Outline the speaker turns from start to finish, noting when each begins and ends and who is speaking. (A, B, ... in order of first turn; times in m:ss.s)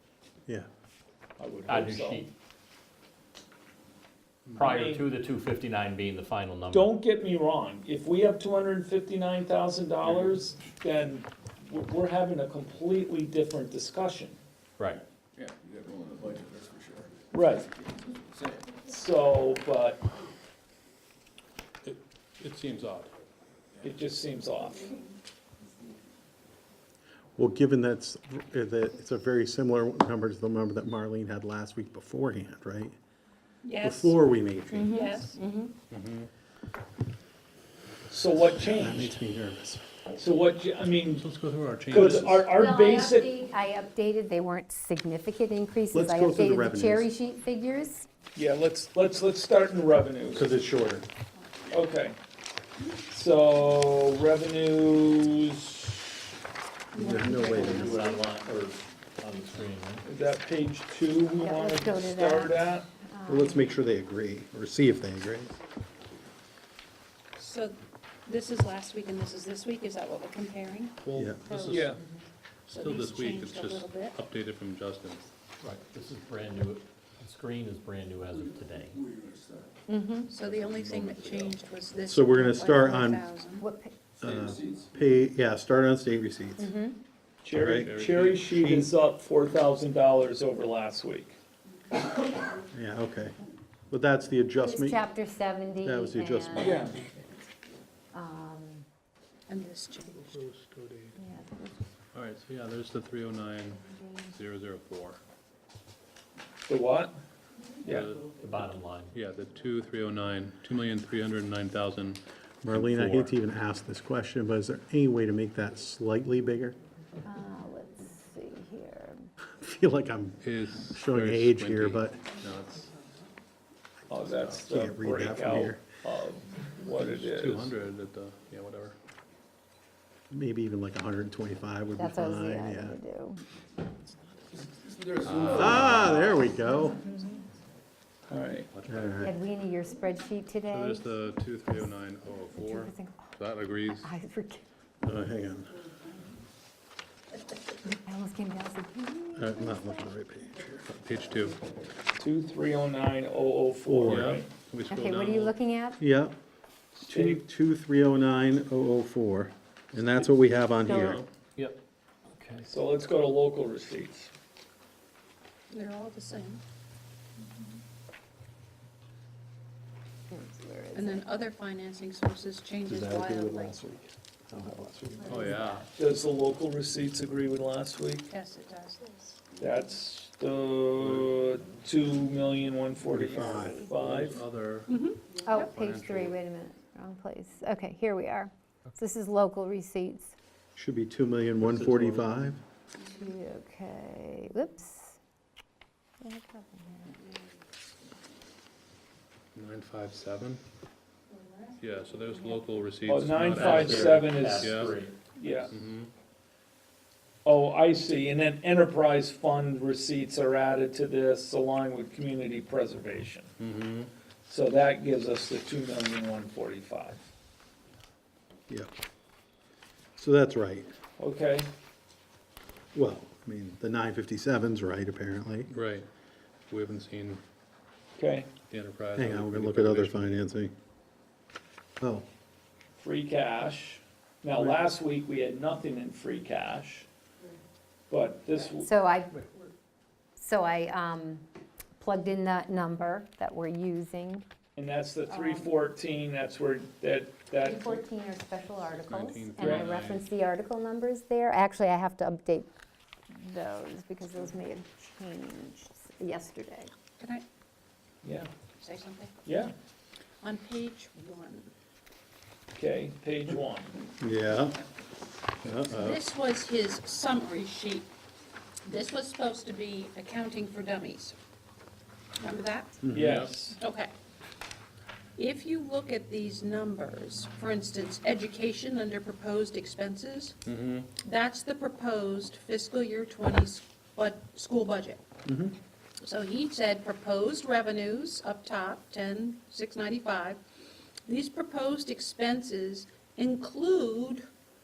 0:01.4-0:02.3 A
0:01.6-0:02.3 B
0:04.6-0:06.9 B
0:04.6-0:05.0 A
0:06.7-0:14.4 A
0:10.0-0:10.4 C
0:14.8-0:15.0 B
0:15.4-0:17.2 D
0:17.3-0:17.7 A
0:17.8-0:18.8 D
0:18.8-0:20.0 A
0:21.8-0:23.1 C
0:23.8-0:24.9 A
0:27.4-0:33.0 E
0:33.6-0:34.2 F
0:33.8-0:34.9 E
0:34.7-0:35.7 G
0:34.9-0:35.4 F
0:35.9-0:36.3 C
0:38.1-0:39.2 A
0:38.6-0:39.8 E
0:40.1-0:41.2 A
0:41.1-0:42.5 C
0:41.9-0:43.3 A
0:42.4-0:48.1 G
0:45.9-0:47.1 E
0:48.3-0:50.4 A
0:50.3-0:51.0 E
0:51.7-0:52.2 A
0:53.1-0:56.2 A
0:56.9-0:58.3 F
0:57.0-0:58.1 E
0:57.0-0:57.4 G
0:57.2-1:00.0 B
1:00.0-1:02.9 A
1:01.4-1:03.7 G
1:03.3-1:05.5 E
1:07.4-1:11.0 F
1:11.0-1:11.9 C
1:11.1-1:11.4 E
1:11.5-1:12.2 G
1:11.5-1:11.8 F
1:11.7-1:12.0 A
1:12.7-1:15.3 C
1:12.7-1:14.2 F
1:15.6-1:19.0 B
1:19.0-1:19.7 D
1:19.9-1:20.3 G
1:20.3-1:23.6 F
1:20.5-1:21.5 D
1:22.1-1:23.2 E
1:23.6-1:24.0 G
1:24.2-1:26.7 E
1:24.2-1:24.9 D
1:26.6-1:27.0 G
1:27.4-1:31.4 A
1:27.5-1:28.9 E
1:27.7-1:28.5 C
1:32.7-1:33.4 E
1:33.9-1:35.0 E
1:34.6-1:36.8 G
1:35.8-1:36.9 E
1:36.6-1:37.0 A
1:38.1-1:38.8 G
1:39.5-1:40.2 F
1:40.2-1:41.2 C
1:41.2-1:41.9 G
1:42.1-1:45.2 C
1:46.7-1:47.2 A
1:47.8-1:48.1 A
1:47.8-1:48.3 C
1:48.4-1:49.2 B
1:49.1-1:53.3 C
1:52.6-1:56.8 E
1:57.2-1:59.2 G
1:59.6-2:02.2 E
2:00.4-2:02.9 C
2:04.1-2:07.7 A
2:04.3-2:04.6 C
2:04.4-2:05.8 E
2:07.0-2:09.0 C
2:10.3-2:13.0 E
2:12.0-2:13.4 G
2:14.8-2:16.2 D
2:15.2-2:16.4 C
2:15.4-2:17.0 E
2:18.3-2:18.7 A
2:18.7-2:19.3 C
2:18.9-2:19.3 E
2:19.2-2:21.1 G
2:20.7-2:24.1 C
2:22.6-2:23.3 G
2:23.9-2:24.6 G
2:25.0-2:25.7 E
2:27.8-2:30.0 G
2:29.4-2:30.8 E
2:30.9-2:31.6 C
2:32.2-2:34.5 A
2:33.9-2:34.4 E
2:34.0-2:35.5 C
2:34.9-2:36.0 G
2:36.0-2:36.4 E
2:37.0-2:41.2 E
2:37.1-2:37.4 A
2:40.8-2:41.2 G
2:40.9-2:41.2 C
2:41.6-2:41.8 B
2:42.3-2:42.7 B
2:42.7-2:44.3 A
2:45.7-2:46.6 F
2:50.3-2:51.2 G
2:50.9-2:53.8 F
2:52.8-2:55.5 E
2:55.2-2:55.9 C
2:55.3-2:55.7 G
2:55.9-2:58.3 A
2:58.3-2:59.3 F
2:59.6-3:04.4 A
3:01.0-3:01.6 C
3:03.1-3:03.9 E
3:03.5-3:03.9 G
3:03.9-3:04.9 C
3:04.9-3:05.7 F
3:05.4-3:10.3 G
3:05.6-3:06.4 C
3:10.8-3:12.6 E
3:11.6-3:12.4 B
3:13.0-3:15.2 G
3:16.2-3:17.2 G
3:19.5-3:20.6 C
3:21.3-3:22.8 F
3:21.8-3:24.9 C
3:23.0-3:25.7 A
3:23.5-3:25.2 B
3:25.7-3:26.1 C
3:27.4-3:33.5 A
3:33.6-3:34.1 C
3:34.4-3:37.2 A
3:40.2-3:40.9 E
3:41.2-3:41.7 A
3:42.9-3:45.7 E
3:45.7-3:46.1 C
3:46.7-3:47.4 C
3:48.2-3:48.5 A
3:48.7-3:50.3 C
3:49.1-3:50.7 E
3:52.0-3:52.2 E
3:52.9-3:57.0 A
3:58.1-3:58.9 A
3:58.8-3:59.3 G
4:00.4-4:01.4 G
4:02.0-4:04.5 G
4:04.8-4:08.0 A
4:05.3-4:05.8 G
4:07.6-4:12.7 G
4:09.0-4:10.2 C
4:09.6-4:09.9 A
4:13.3-4:16.9 G
4:18.2-4:18.5 A
4:18.8-4:19.4 F
4:19.4-4:19.7 A
4:20.4-4:21.7 F
4:22.7-4:24.0 A
4:24.2-4:24.8 E
4:25.6-4:26.2 E
4:25.9-4:28.1 F
4:28.8-4:31.4 F
4:32.4-4:33.0 F
4:33.0-4:33.4 E
4:33.1-4:33.8 A
4:33.2-4:33.6 C
4:33.8-4:34.1 F
4:35.4-4:40.6 F
4:40.6-4:41.1 C
4:41.2-4:45.2 F
4:45.4-4:45.8 E
4:46.2-4:50.6 F
4:51.2-4:54.4 F